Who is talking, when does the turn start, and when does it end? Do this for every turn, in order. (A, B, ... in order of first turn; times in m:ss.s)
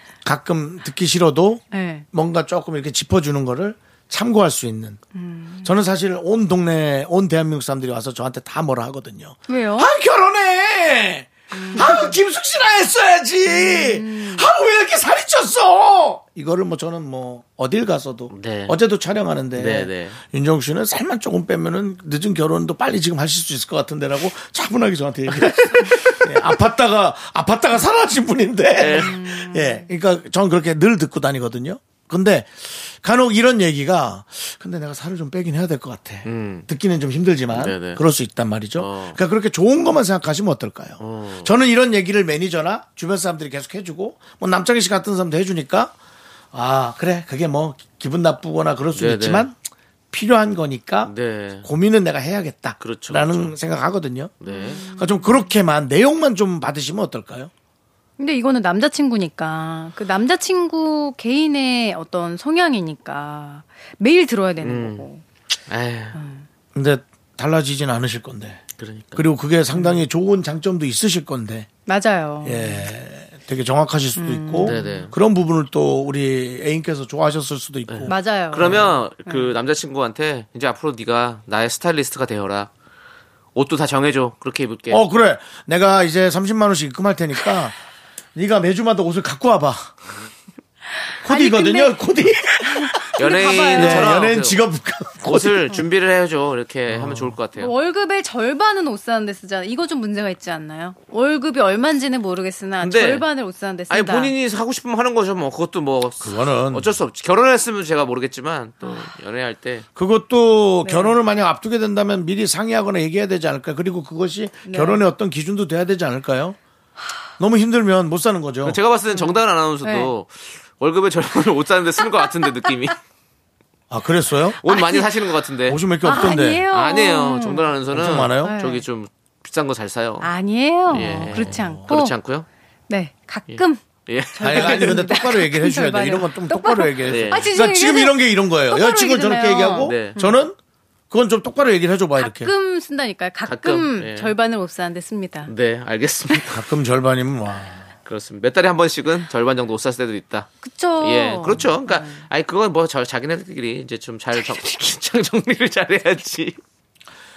0:00.2-0:05.0 A
0:01.7-0:02.0 B
0:05.1-0:05.8 B
0:05.6-0:45.9 A
0:09.5-0:10.0 B
0:11.5-0:12.1 B
0:13.5-0:14.5 B
0:18.3-0:18.8 C
0:19.6-0:20.2 C
0:25.4-0:26.3 C
0:28.8-0:29.2 C
0:28.9-0:29.9 B
0:36.2-0:36.7 C
0:37.5-0:38.0 C
0:38.8-0:39.2 C
0:41.0-0:41.5 C
0:46.5-0:49.6 A
0:48.9-0:49.5 C
0:50.1-0:57.5 A
0:51.0-0:51.7 C
0:52.8-0:53.5 C
0:54.4-0:54.8 C
0:54.4-0:55.5 B
0:58.2-1:05.2 B
1:04.6-1:05.1 C
1:05.7-1:06.2 C
1:06.1-1:06.5 B
1:06.7-1:08.6 A
1:08.8-1:09.3 C
1:09.2-1:11.7 A
1:11.9-1:12.9 B
1:12.4-1:18.9 A
1:14.2-1:15.1 B
1:14.6-1:15.1 C
1:17.9-1:22.7 C
1:18.1-1:19.5 B
1:23.5-1:25.0 C
1:24.9-1:27.8 A
1:28.3-1:29.9 A
1:31.2-1:33.1 A
1:31.2-1:31.9 B
1:32.7-1:34.2 B
1:33.1-1:34.6 C
1:33.7-1:35.8 A
1:35.2-1:37.7 C
1:36.9-1:37.4 A
1:37.5-1:44.3 B
1:42.8-1:43.2 C
1:43.9-1:49.8 C
1:46.2-1:46.9 A
1:48.8-1:49.1 B
1:50.0-1:56.6 A
1:50.8-1:51.2 B
1:54.6-1:55.0 B
1:57.4-1:58.8 A
1:58.6-2:03.0 C
1:59.1-2:00.1 B
2:03.9-2:04.6 A
2:04.6-2:05.8 C
2:04.7-2:05.1 B
2:05.7-2:06.7 A
2:06.0-2:07.7 B
2:06.7-2:10.3 C
2:07.9-2:08.6 A
2:08.4-2:08.8 B
2:10.2-2:12.1 B
2:10.9-2:12.4 C
2:11.2-2:11.9 A
2:12.9-2:13.8 B
2:13.5-2:15.1 C
2:14.4-2:20.4 B
2:14.4-2:20.6 A
2:17.1-2:17.5 C
2:19.8-2:20.2 C
2:21.1-2:22.5 A
2:22.2-2:25.5 B
2:23.4-2:24.3 C
2:25.4-2:26.6 C
2:26.5-2:27.9 A
2:28.0-2:36.6 C
2:30.6-2:32.2 B